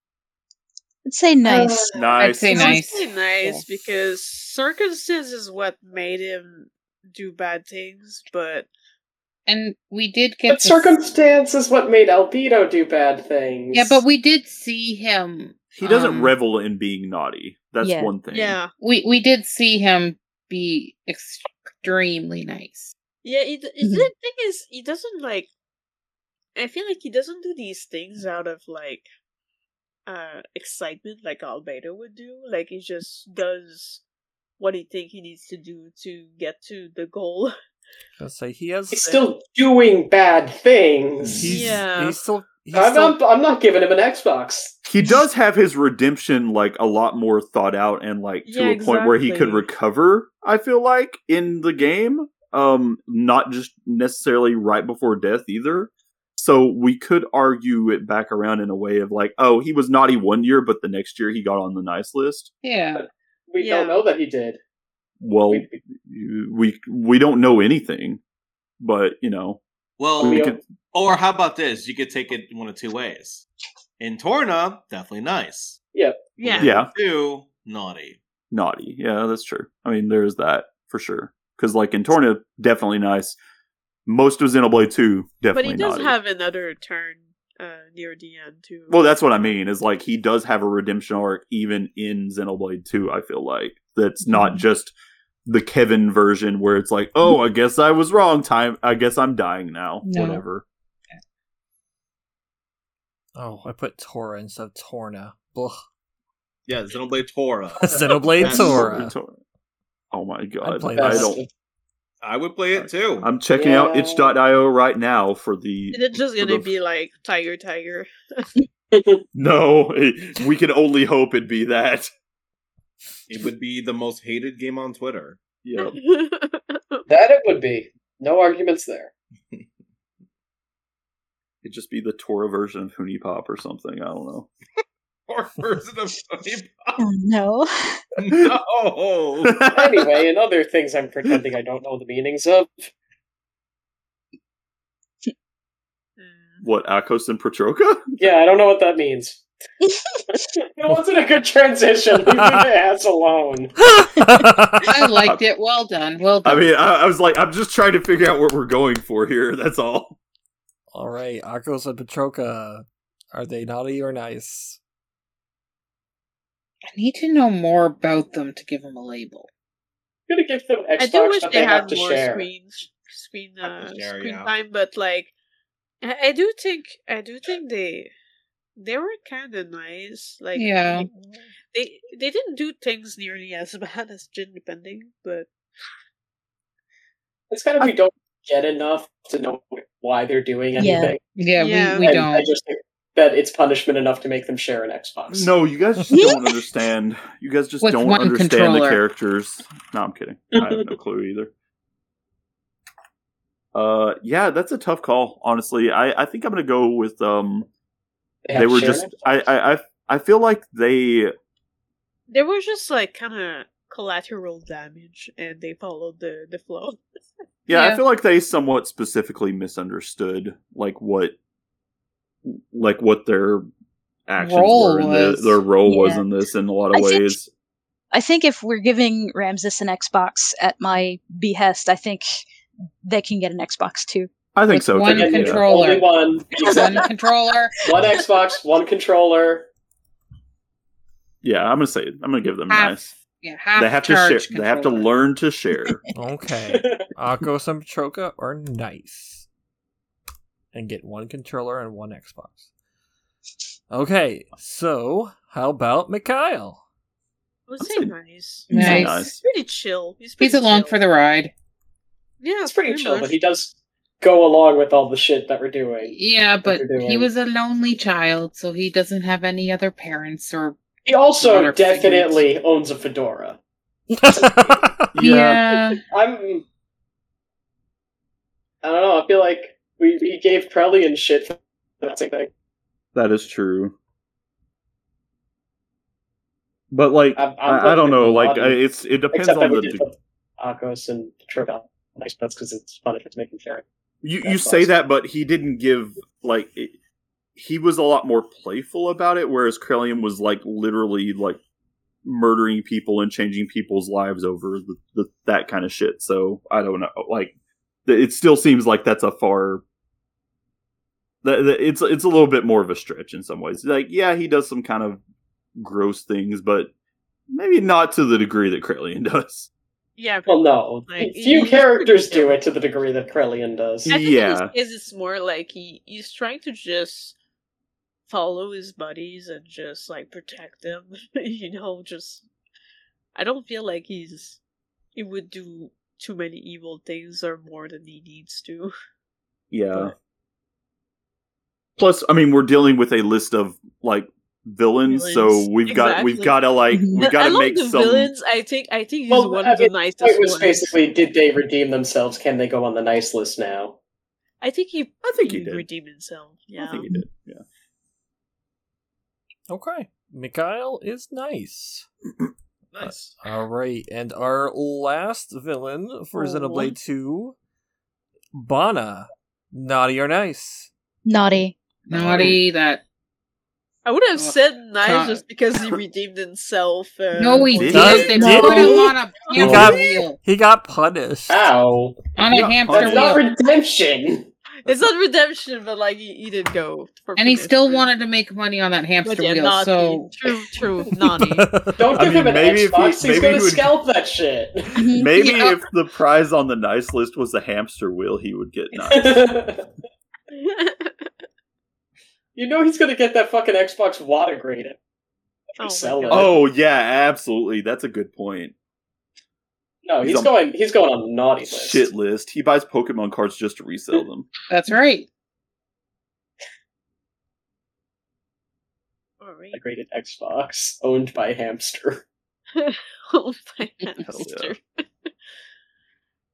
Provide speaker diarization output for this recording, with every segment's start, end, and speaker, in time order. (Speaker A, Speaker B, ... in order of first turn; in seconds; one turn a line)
Speaker A: 1.1-1.9
Speaker B: 1.4-2.2
Speaker C: 1.9-2.7
Speaker D: 2.2-3.8
Speaker E: 2.5-8.7
Speaker D: 9.5-11.0
Speaker B: 10.5-14.0
Speaker D: 13.7-16.4
Speaker C: 15.7-18.6
Speaker A: 17.8-18.1
Speaker E: 18.3-18.7
Speaker D: 18.8-22.9
Speaker E: 23.2-25.5
Speaker A: 23.8-24.1
Speaker E: 26.6-29.1
Speaker E: 30.1-34.0
Speaker E: 34.6-37.5
Speaker F: 38.2-39.2
Speaker B: 38.9-41.6
Speaker C: 41.3-41.7
Speaker F: 41.4-43.2
Speaker E: 41.5-42.2
Speaker B: 42.7-44.8
Speaker C: 44.9-62.5
Speaker E: 48.5-49.7
Speaker D: 62.6-63.0
Speaker B: 63.0-64.6
Speaker E: 63.6-64.0
Speaker C: 65.2-68.2
Speaker B: 65.5-65.8
Speaker C: 68.8-69.6
Speaker G: 70.0-73.5
Speaker C: 70.2-70.6
Speaker B: 70.2-70.6
Speaker G: 74.0-75.8
Speaker B: 75.9-76.3
Speaker E: 76.4-76.7
Speaker G: 76.4-78.2
Speaker C: 76.6-76.9
Speaker C: 78.5-83.4
Speaker C: 84.1-86.2
Speaker E: 85.5-89.0
Speaker C: 88.9-95.0
Speaker C: 95.5-100.7
Speaker D: 100.0-100.5
Speaker F: 103.4-105.8
Speaker G: 106.7-109.0
Speaker F: 107.8-109.1
Speaker C: 108.5-109.4
Speaker C: 110.1-111.4
Speaker F: 110.6-111.3
Speaker B: 111.0-111.5
Speaker G: 112.2-113.3
Speaker C: 112.8-116.7
Speaker B: 113.5-114.3
Speaker E: 115.9-118.5
Speaker B: 118.9-119.2
Speaker C: 119.3-122.1
Speaker G: 123.3-125.4
Speaker C: 125.6-126.0
Speaker E: 125.8-127.0
Speaker B: 127.1-129.1
Speaker C: 131.6-134.5
Speaker G: 135.3-137.0
Speaker A: 137.0-138.0
Speaker G: 138.2-139.6
Speaker C: 139.4-140.1
Speaker B: 139.7-142.9
Speaker E: 146.2-146.6
Speaker C: 146.6-148.2
Speaker B: 148.2-149.4
Speaker B: 150.3-153.8
Speaker F: 153.9-154.9
Speaker D: 154.9-156.7
Speaker C: 156.4-160.2
Speaker F: 160.9-164.8
Speaker D: 166.9-169.5
Speaker B: 170.3-172.5
Speaker E: 171.0-175.3
Speaker G: 173.6-174.5
Speaker E: 176.0-178.1
Speaker E: 178.8-185.5
Speaker D: 180.6-181.1
Speaker B: 187.5-191.2
Speaker A: 190.8-191.2
Speaker D: 191.4-192.5
Speaker E: 191.6-192.1
Speaker B: 192.0-195.6
Speaker C: 195.3-201.5
Speaker A: 196.1-196.6
Speaker D: 197.8-199.0
Speaker B: 200.5-200.9
Speaker C: 203.7-207.7
Speaker B: 208.4-209.3
Speaker C: 208.5-211.3
Speaker E: 212.3-217.0
Speaker C: 217.7-221.4
Speaker D: 217.7-218.0
Speaker C: 222.4-223.7
Speaker C: 224.3-227.5
Speaker D: 224.4-225.6
Speaker A: 225.8-226.2
Speaker A: 226.9-227.4
Speaker A: 228.1-232.4
Speaker A: 233.0-234.3
Speaker C: 234.6-235.7
Speaker D: 234.7-237.8
Speaker B: 235.1-237.1
Speaker B: 237.9-239.7
Speaker C: 241.4-243.1
Speaker D: 242.7-245.1
Speaker C: 243.8-246.0
Speaker F: 246.1-249.5
Speaker B: 246.7-247.1
Speaker F: 250.7-252.7
Speaker F: 253.9-256.8
Speaker E: 257.7-261.0
Speaker C: 257.8-258.1
Speaker D: 258.7-259.3
Speaker C: 258.8-259.4
Speaker D: 260.4-261.5
Speaker E: 262.4-263.4
Speaker B: 262.6-267.3
Speaker D: 266.1-270.8
Speaker B: 271.1-273.6
Speaker D: 271.4-272.4
Speaker F: 274.1-275.1
Speaker B: 274.3-274.7
Speaker C: 275.1-275.6
Speaker D: 275.2-276.0
Speaker B: 275.9-276.6
Speaker B: 278.8-282.5
Speaker C: 283.1-283.9
Speaker C: 286.9-290.1
Speaker B: 287.4-293.9
Speaker C: 294.2-296.9
Speaker B: 294.4-294.9
Speaker C: 297.6-301.6
Speaker C: 302.2-307.5
Speaker C: 308.1-309.8
Speaker C: 311.4-315.2
Speaker C: 315.8-316.9
Speaker C: 317.5-319.7
Speaker E: 320.2-322.6
Speaker B: 320.5-324.1
Speaker C: 324.1-324.7
Speaker E: 324.1-327.4
Speaker E: 328.3-332.4
Speaker E: 333.4-334.6
Speaker E: 335.2-338.9
Speaker C: 339.7-340.1
Speaker C: 342.0-348.3
Speaker E: 345.1-346.6
Speaker A: 346.9-347.3
Speaker E: 347.2-350.9
Speaker B: 349.3-354.0
Speaker E: 354.6-357.1
Speaker C: 355.2-355.9
Speaker C: 356.7-357.6
Speaker F: 359.7-362.1
Speaker G: 362.9-363.3
Speaker F: 363.0-367.6
Speaker E: 366.4-366.9
Speaker F: 368.5-370.9
Speaker A: 371.2-371.8
Speaker D: 372.1-373.0
Speaker G: 372.1-372.6
Speaker E: 374.1-378.9
Speaker D: 374.4-375.4
Speaker D: 377.4-380.4
Speaker C: 377.7-378.5
Speaker F: 377.9-378.9
Speaker A: 378.4-379.1
Speaker F: 379.6-381.6
Speaker B: 379.6-380.0
Speaker B: 381.5-382.3
Speaker D: 382.4-383.4
Speaker C: 382.5-383.4
Speaker B: 382.9-384.5
Speaker E: 384.8-388.1
Speaker D: 387.4-390.4
Speaker E: 389.2-391.7
Speaker F: 391.6-392.0
Speaker B: 392.0-395.1
Speaker C: 392.1-393.9
Speaker A: 395.0-395.3
Speaker C: 395.1-399.5
Speaker D: 395.3-395.8
Speaker B: 399.0-399.9
Speaker E: 400.5-401.3
Speaker B: 402.6-405.0
Speaker B: 405.8-406.6
Speaker E: 405.8-406.6
Speaker C: 406.3-408.7
Speaker B: 410.1-412.1
Speaker C: 410.2-410.5
Speaker C: 411.7-414.5
Speaker D: 414.7-415.3
Speaker E: 419.4-419.8
Speaker B: 419.7-422.2
Speaker E: 422.8-425.3
Speaker C: 424.2-424.8